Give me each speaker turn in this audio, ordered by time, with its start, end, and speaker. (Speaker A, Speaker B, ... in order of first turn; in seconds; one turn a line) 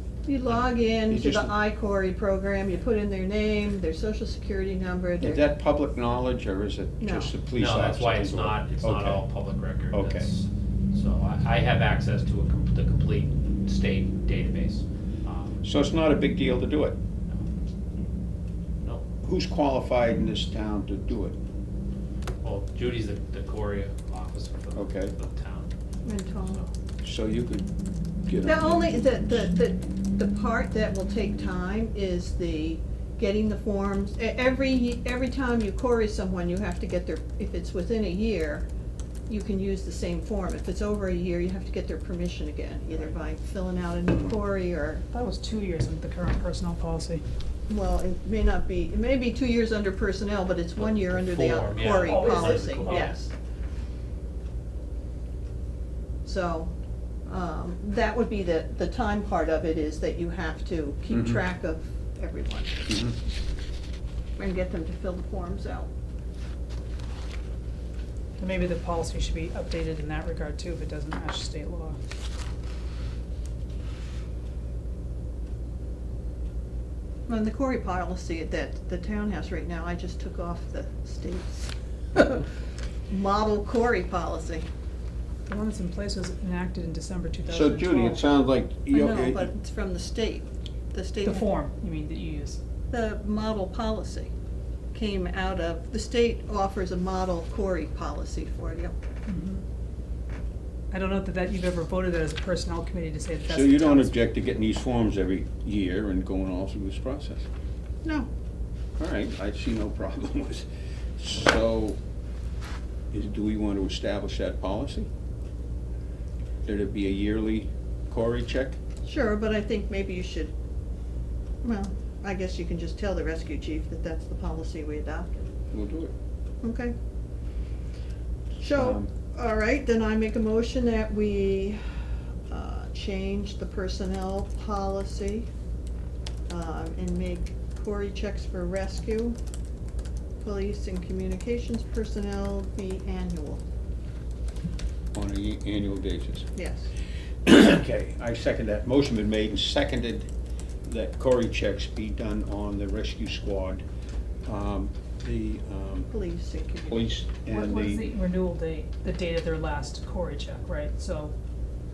Speaker A: 0.3-5.4
Speaker B: 1.1-1.5
Speaker B: 5.2-9.2
Speaker A: 7.0-7.3
Speaker C: 7.5-15.6
Speaker B: 9.9-10.3
Speaker B: 15.6-17.0
Speaker B: 19.2-21.4
Speaker C: 22.4-25.7
Speaker B: 24.8-25.1
Speaker A: 26.0-26.6
Speaker B: 27.0-27.7
Speaker B: 28.3-29.5
Speaker A: 28.4-38.7
Speaker A: 39.3-45.1
Speaker D: 45.1-47.2
Speaker A: 47.7-53.3
Speaker C: 50.8-53.2
Speaker D: 51.8-53.1
Speaker A: 56.2-56.7
Speaker A: 57.3-62.9
Speaker B: 61.1-61.4
Speaker B: 62.9-63.2
Speaker A: 64.4-65.9
Speaker D: 68.4-72.0
Speaker A: 77.3-82.5
Speaker A: 83.1-84.7
Speaker D: 85.5-88.2
Speaker B: 87.5-89.5
Speaker A: 88.9-91.5
Speaker D: 91.3-92.6
Speaker A: 92.9-94.3
Speaker A: 94.9-98.9
Speaker D: 99.3-99.6
Speaker D: 100.9-104.1
Speaker B: 103.5-107.5
Speaker B: 109.0-112.0
Speaker B: 113.1-115.1
Speaker B: 116.7-118.8
Speaker A: 119.0-120.5
Speaker A: 121.6-125.4
Speaker B: 125.7-126.1
Speaker A: 126.6-126.9
Speaker A: 128.6-131.8
Speaker B: 128.6-129.1
Speaker A: 132.5-135.5
Speaker A: 136.5-139.4
Speaker A: 140.4-143.6
Speaker B: 145.1-146.5
Speaker A: 146.6-146.9
Speaker B: 147.4-150.3
Speaker B: 150.8-153.8
Speaker B: 154.5-156.1
Speaker A: 156.1-157.1
Speaker B: 156.9-158.1
Speaker D: 157.5-161.3